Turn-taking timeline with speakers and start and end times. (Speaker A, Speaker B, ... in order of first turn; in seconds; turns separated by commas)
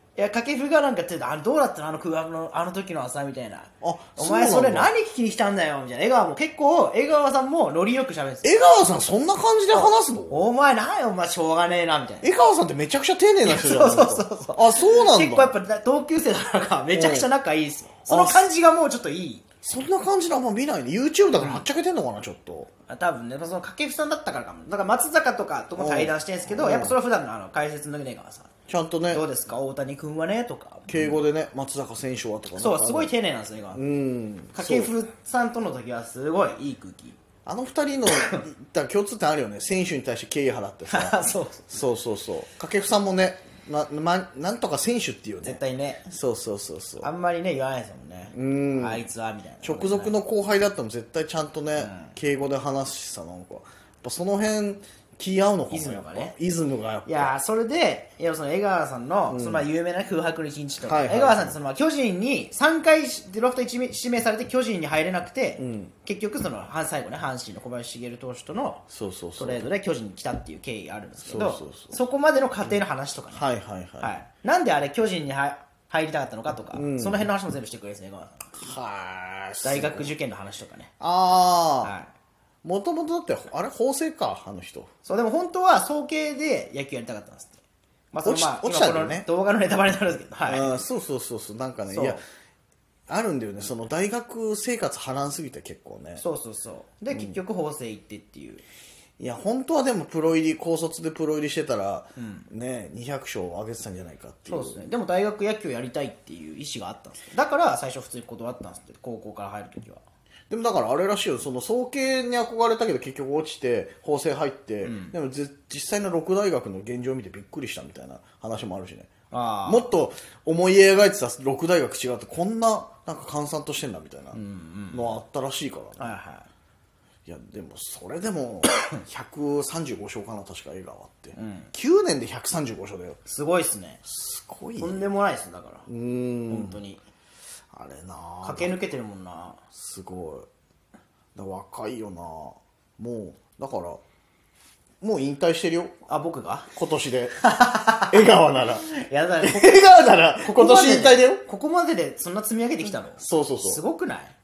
Speaker A: 0.2-8.5, Speaker B: 3.8-4.9, Speaker B: 8.4-10.4, Speaker A: 9.7-12.3, Speaker B: 12.2-15.6, Speaker A: 13.4-19.4, Speaker B: 16.9-17.3, Speaker B: 18.1-18.5, Speaker B: 19.6-22.7, Speaker A: 21.3-21.7, Speaker A: 22.9-28.5, Speaker B: 25.8-27.0, Speaker B: 28.7-29.2, Speaker A: 29.1-31.2, Speaker B: 30.9-33.1, Speaker A: 32.5-33.8, Speaker B: 33.8-34.9, Speaker A: 34.5-37.2, Speaker B: 37.5-41.2, Speaker A: 38.1-38.4, Speaker A: 40.9-41.7, Speaker B: 41.7-47.1, Speaker A: 45.4-46.1, Speaker A: 47.0-50.1, Speaker B: 48.3-49.1, Speaker B: 49.6-57.3, Speaker A: 51.8-52.1, Speaker A: 55.7-56.4, Speaker A: 57.1-68.8, Speaker B: 59.3-59.7, Speaker B: 60.9-61.6, Speaker B: 65.6-65.9, Speaker B: 68.9-69.7, Speaker A: 69.4-73.5, Speaker B: 71.2-72.0, Speaker B: 73.3-74.1, Speaker A: 74.0-78.5, Speaker B: 76.7-77.3, Speaker B: 78.5-80.1, Speaker A: 79.6-80.9, Speaker B: 81.0-81.9, Speaker A: 81.8-82.1, Speaker B: 82.6-84.9, Speaker A: 85.0-87.6, Speaker A: 88.1-90.7, Speaker B: 88.2-89.3, Speaker B: 90.5-92.2, Speaker A: 91.9-92.2, Speaker B: 93.1-96.2, Speaker A: 96.2-98.6, Speaker B: 97.1-97.4, Speaker B: 99.2-104.9, Speaker A: 102.2-102.5, Speaker A: 104.5-110.0, Speaker B: 110.5-119.1, Speaker A: 114.8-115.2, Speaker A: 119.3-119.9, Speaker B: 119.7-124.4, Speaker A: 124.3-125.2, Speaker B: 124.9-126.1, Speaker A: 126.0-126.5, Speaker B: 127.3-133.2, Speaker A: 131.3-131.7, Speaker A: 133.3-134.0, Speaker B: 134.0-135.1, Speaker A: 134.8-135.9, Speaker B: 135.9-136.8, Speaker A: 136.5-137.0, Speaker B: 137.7-138.8, Speaker A: 138.4-139.6, Speaker B: 139.7-140.5, Speaker B: 141.3-144.0, Speaker B: 145.0-145.9, Speaker A: 146.1-146.7, Speaker B: 146.8-147.4, Speaker A: 147.4-148.2, Speaker B: 148.1-148.9, Speaker A: 148.8-149.8, Speaker B: 149.4-151.4, Speaker A: 150.4-154.3, Speaker B: 153.2-153.8